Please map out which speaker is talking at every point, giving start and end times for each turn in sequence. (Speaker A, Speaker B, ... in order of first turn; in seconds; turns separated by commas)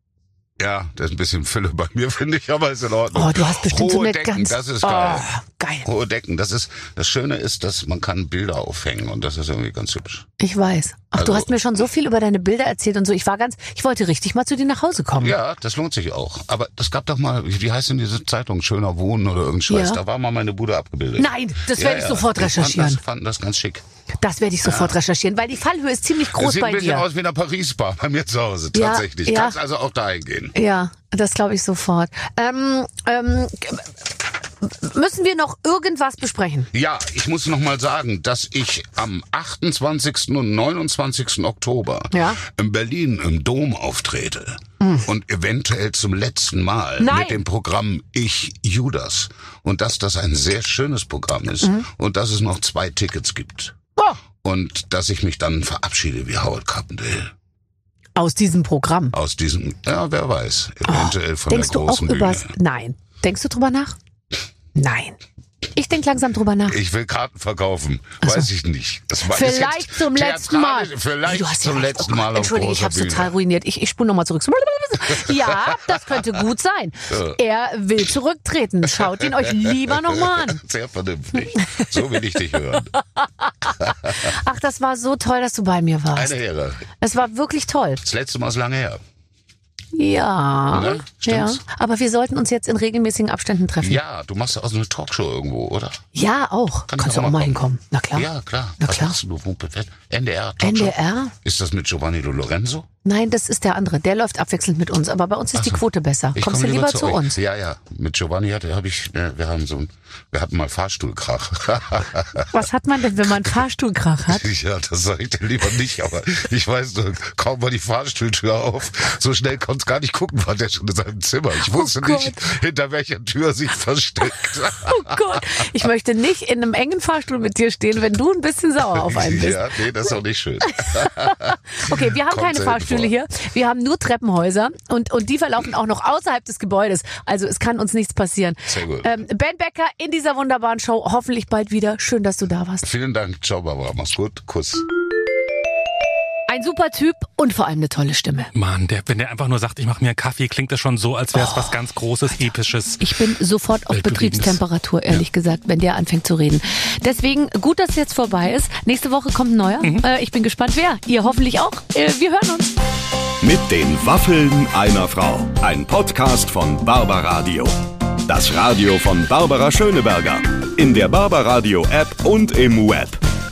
Speaker A: 0.6-5.3, Speaker B: 3.1-5.9, Speaker A: 5.8-10.3, Speaker B: 10.4-15.4, Speaker A: 11.1-11.5, Speaker A: 15.1-23.8, Speaker B: 19.7-20.0, Speaker B: 21.2-23.0, Speaker B: 24.2-27.1, Speaker A: 24.6-25.0, Speaker A: 26.3-30.5, Speaker B: 28.7-29.6, Speaker B: 30.5-33.9, Speaker B: 34.6-36.7, Speaker A: 36.7-53.7, Speaker B: 42.1-42.4, Speaker B: 44.8-45.1, Speaker B: 47.0-47.4, Speaker A: 54.4-57.3, Speaker B: 58.1-59.1, Speaker A: 59.1-62.5, Speaker B: 60.9-64.0, Speaker B: 64.7-65.2, Speaker B: 65.7-66.8, Speaker A: 66.7-73.3, Speaker B: 69.3-80.6, Speaker A: 75.0-76.2, Speaker A: 77.1-77.4, Speaker A: 79.0-82.9, Speaker B: 81.6-81.8, Speaker B: 83.0-86.3, Speaker A: 83.8-84.3, Speaker A: 86.1-86.8, Speaker B: 87.0-88.0, Speaker A: 88.0-89.0, Speaker B: 89.9-94.0, Speaker A: 90.7-91.6, Speaker A: 93.8-96.0, Speaker B: 96.1-98.3, Speaker A: 96.9-102.9, Speaker B: 98.8-99.2, Speaker B: 100.6-101.3, Speaker B: 103.0-107.3, Speaker A: 105.5-105.8, Speaker A: 106.3-112.5, Speaker B: 112.5-114.4, Speaker A: 114.3-125.4, Speaker B: 121.6-122.4, Speaker B: 124.8-129.6, Speaker A: 128.9-133.1, Speaker B: 130.7-142.8, Speaker A: 138.7-139.1, Speaker A: 142.8-144.8, Speaker B: 146.5-148.5, Speaker C: 148.5-153.0, Speaker B: 151.3-151.7, Speaker B: 153.0-162.7, Speaker C: 153.9-154.6, Speaker D: 163.4-173.2